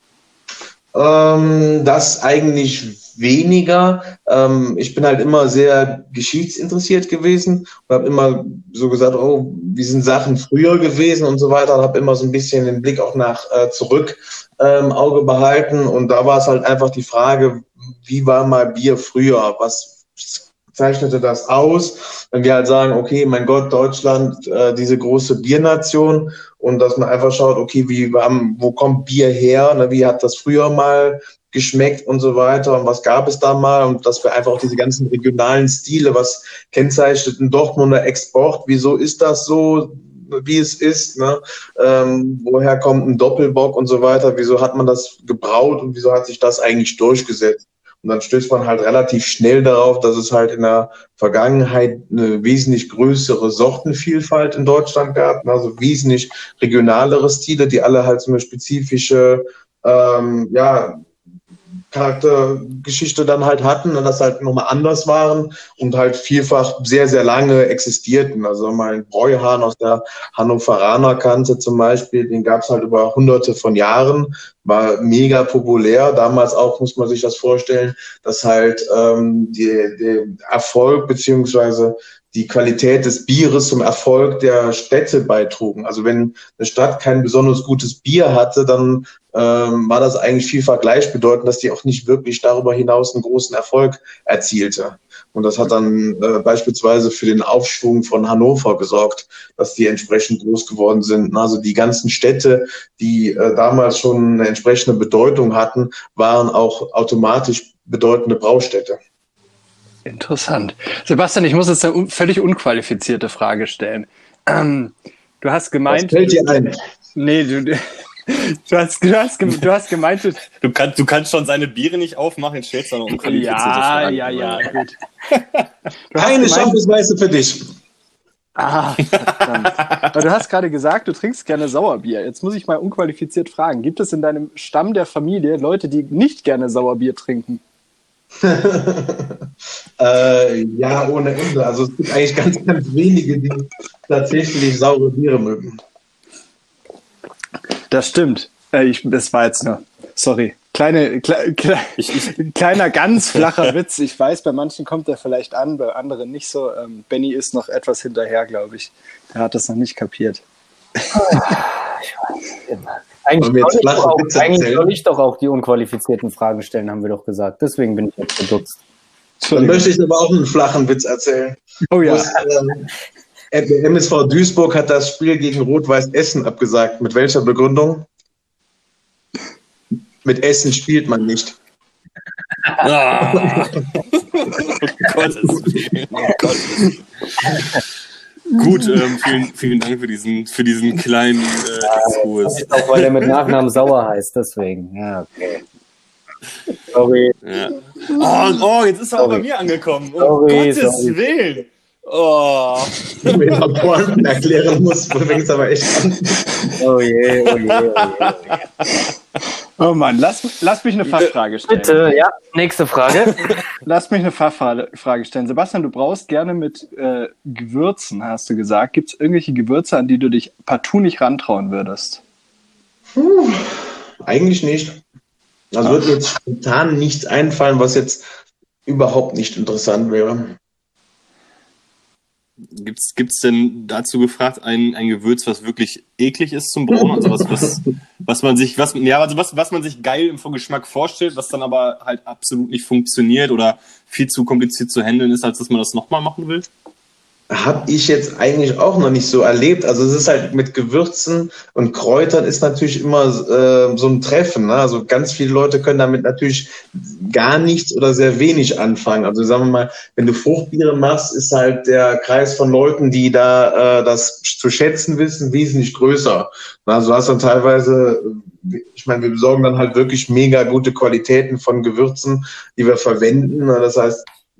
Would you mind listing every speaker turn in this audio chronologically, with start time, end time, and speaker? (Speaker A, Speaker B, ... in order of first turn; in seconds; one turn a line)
Speaker A: 0.9-61.0
Speaker A: 61.9-109.0
Speaker B: 110.1-116.5
Speaker A: 115.9-116.8
Speaker B: 117.2-120.5
Speaker C: 120.6-124.7
Speaker B: 123.2-125.0
Speaker B: 126.1-126.8
Speaker A: 126.2-127.6
Speaker B: 128.6-137.6
Speaker C: 129.2-130.1
Speaker A: 138.4-139.4
Speaker A: 140.0-145.8
Speaker B: 147.9-160.4
Speaker C: 152.0-152.3
Speaker D: 161.2-168.8
Speaker A: 163.4-164.9
Speaker B: 169.4-169.9
Speaker A: 169.5-172.9
Speaker B: 171.9-172.3
Speaker A: 173.5-178.1
Speaker A: 180.2-181.6
Speaker C: 182.8-183.8
Speaker C: 184.6-186.9
Speaker C: 188.5-193.3
Speaker D: 191.9-195.6
Speaker D: 196.9-197.3
Speaker C: 197.4-203.4
Speaker D: 199.2-199.4
Speaker D: 200.2-201.2
Speaker A: 203.2-206.5
Speaker D: 206.8-208.5
Speaker C: 207.5-208.3
Speaker B: 209.8-212.0
Speaker D: 211.2-213.4
Speaker B: 213.8-222.2
Speaker A: 223.2-225.0
Speaker A: 225.7-228.2
Speaker A: 228.9-230.6
Speaker C: 232.7-246.7
Speaker A: 237.4-237.7
Speaker A: 247.5-274.3